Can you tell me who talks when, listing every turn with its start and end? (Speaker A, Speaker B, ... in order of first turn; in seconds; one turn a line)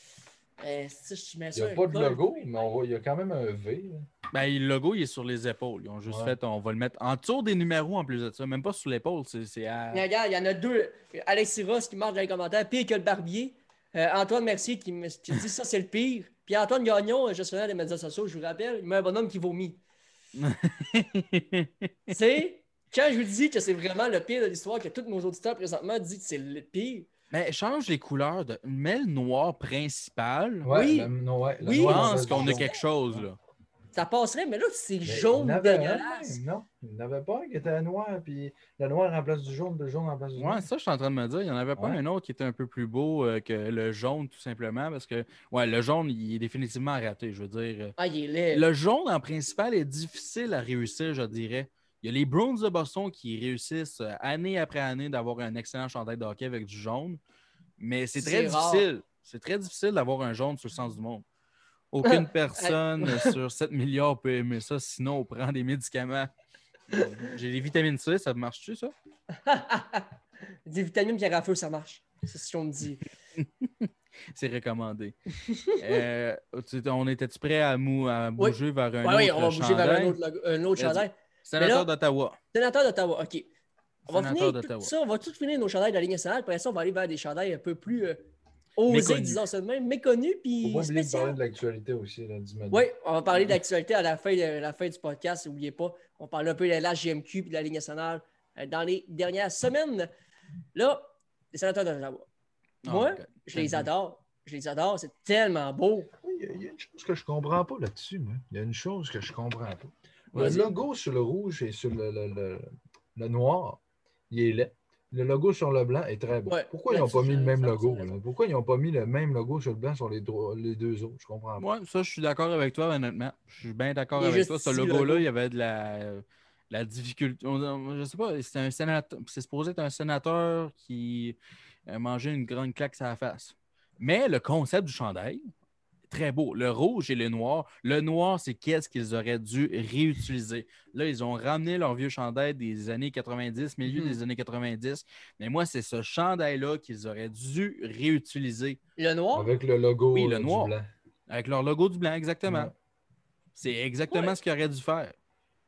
Speaker A: 0.6-2.5
Speaker B: 1.5-4.1
Speaker C: 4.3-10.1
Speaker B: 6.1-6.3
Speaker A: 9.9-19.8
Speaker C: 20.3-21.9
Speaker A: 22.1-27.1
Speaker C: 27.3-30.7
Speaker B: 30.6-33.2
Speaker A: 30.7-31.1
Speaker A: 31.6-32.8
Speaker C: 31.8-33.4
Speaker A: 33.9-36.4
Speaker B: 35.0-40.6
Speaker C: 40.4-47.9
Speaker A: 48.0-48.6
Speaker C: 48.5-57.2
Speaker C: 57.8-61.2
Speaker A: 58.2-58.9
Speaker C: 61.9-66.3
Speaker A: 62.0-63.3
Speaker C: 66.9-68.9
Speaker A: 69.4-70.1
Speaker A: 70.7-73.1
Speaker C: 73.4-75.2
Speaker A: 75.4-76.0
Speaker C: 75.8-80.2
Speaker A: 78.4-81.9
Speaker C: 80.8-82.4
Speaker A: 82.5-83.5
Speaker C: 84.1-84.9
Speaker A: 84.1-88.2
Speaker A: 88.8-91.4
Speaker C: 88.9-89.4
Speaker B: 90.6-92.9
Speaker A: 92.7-100.1
Speaker A: 100.7-102.3
Speaker C: 102.8-103.9
Speaker A: 102.8-106.1
Speaker B: 106.2-121.7
Speaker C: 110.3-110.7
Speaker A: 110.3-110.7
Speaker A: 116.5-118.2
Speaker C: 121.6-135.4
Speaker A: 124.1-125.3
Speaker C: 136.1-148.8
Speaker A: 143.8-144.2
Speaker A: 149.0-149.5
Speaker B: 149.3-150.9
Speaker C: 150.1-150.7
Speaker C: 151.3-152.7
Speaker B: 152.4-152.7
Speaker C: 153.6-155.1
Speaker A: 154.1-154.4